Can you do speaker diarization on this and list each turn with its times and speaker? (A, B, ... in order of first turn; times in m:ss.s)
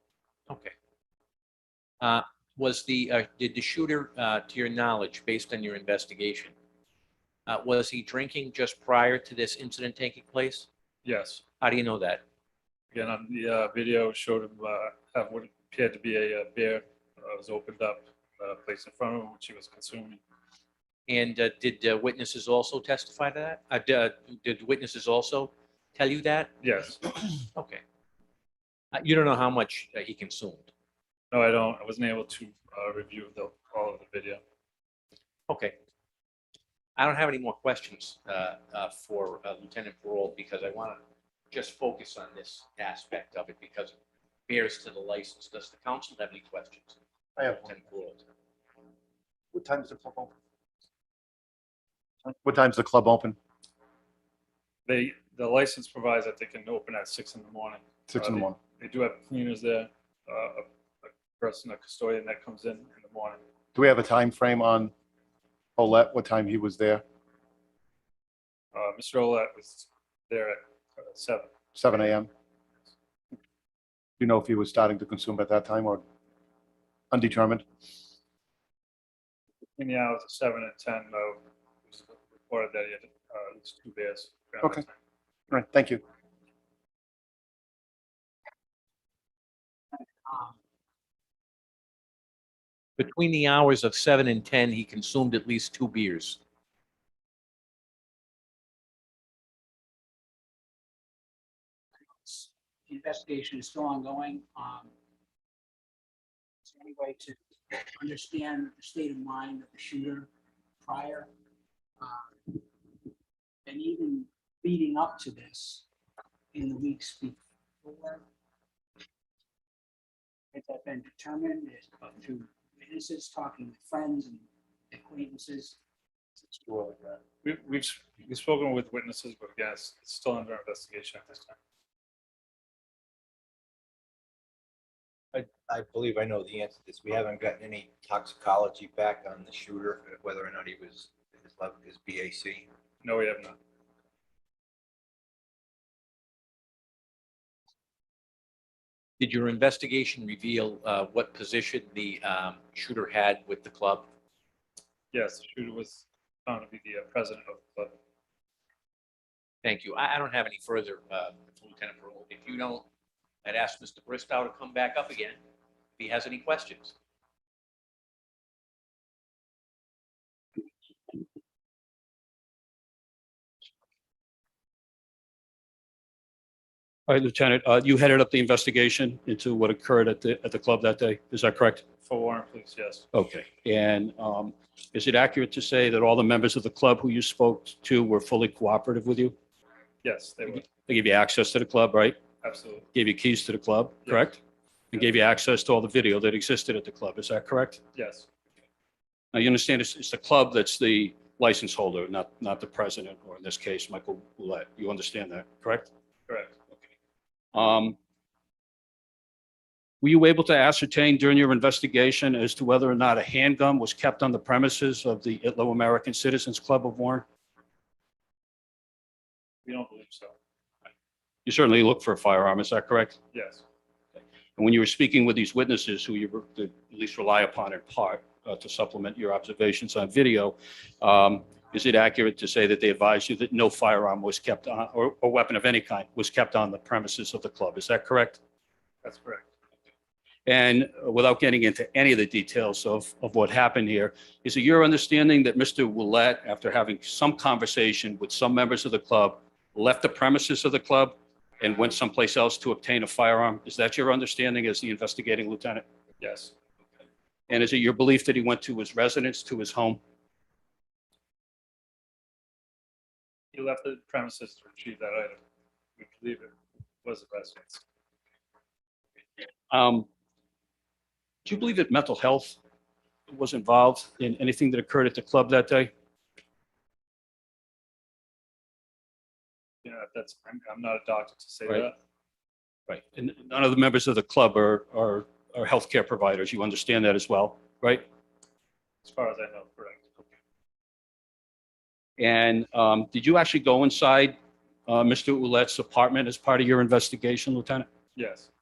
0:00.5-0:00.7 A
0:02.0-0:06.5 A
0:07.5-0:10.6 A
0:11.0-0:11.4 B
0:11.6-0:12.2 A
0:12.9-0:20.2 B
0:21.1-0:26.5 A
0:26.6-0:27.1 B
0:27.5-0:27.8 A
0:28.9-0:30.7 A
0:31.3-0:34.4 B
0:35.5-0:35.7 A
0:37.0-0:44.0 A
0:44.5-0:47.0 A
0:47.4-0:47.7 C
0:47.6-0:48.2 A
0:49.5-0:50.3 C
0:52.4-0:53.4 C
0:54.8-1:03.4 B
0:58.1-0:58.5 C
1:03.7-1:04.9 C
1:05.8-1:07.0 C
1:08.7-1:12.1 B
1:11.8-1:12.3 C
1:14.2-1:16.0 C
1:17.1-1:17.6 C
1:19.8-1:24.9 B
1:25.5-1:26.0 C
1:30.3-1:30.5 D
1:33.0-1:36.4 A
1:42.2-1:44.9 D
1:46.6-1:47.4 D
1:48.0-1:50.3 D
1:50.8-1:51.3 D
1:52.0-1:52.6 D
1:53.6-1:55.8 D
1:56.5-1:58.2 D
2:00.5-2:05.8 D
2:06.7-2:11.6 B
2:15.3-2:22.7 E
2:23.0-2:23.6 B
2:29.2-2:34.1 A
2:35.1-2:38.0 B
2:39.6-2:42.9 A
2:43.4-2:45.4 A
2:46.0-2:46.9 A
2:57.1-3:01.8 F
3:02.0-3:03.0 B
3:03.1-3:09.3 F
3:10.0-3:10.6 B
3:10.6-3:12.2 F
3:12.4-3:12.8 B
3:12.9-3:14.4 F
3:14.0-3:14.3 B
3:14.9-3:17.8 F
3:17.9-3:18.3 B
3:19.3-3:25.9 F
3:26.3-3:26.5 B
3:27.5-3:28.0 F
3:30.0-3:37.2 F
3:39.6-3:40.3 B
3:41.4-3:43.2 F
3:43.3-3:43.6 B
3:44.6-3:58.4 F
3:59.0-3:59.5 B
4:00.4-4:15.8 F
4:16.2-4:16.5 B
4:17.5-4:20.0 F
4:23.5-4:25.4 B
4:26.0-4:26.5 B
4:27.0-4:27.8 B
4:29.7-4:30.1 F
4:31.4-4:32.6 F
4:33.3-4:35.9 F
4:39.8-4:42.0 B
4:42.9-4:48.0 F
4:49.0-4:50.2 B
4:52.2-4:54.4 F
4:54.9-4:57.9 F
4:58.2-4:58.5 B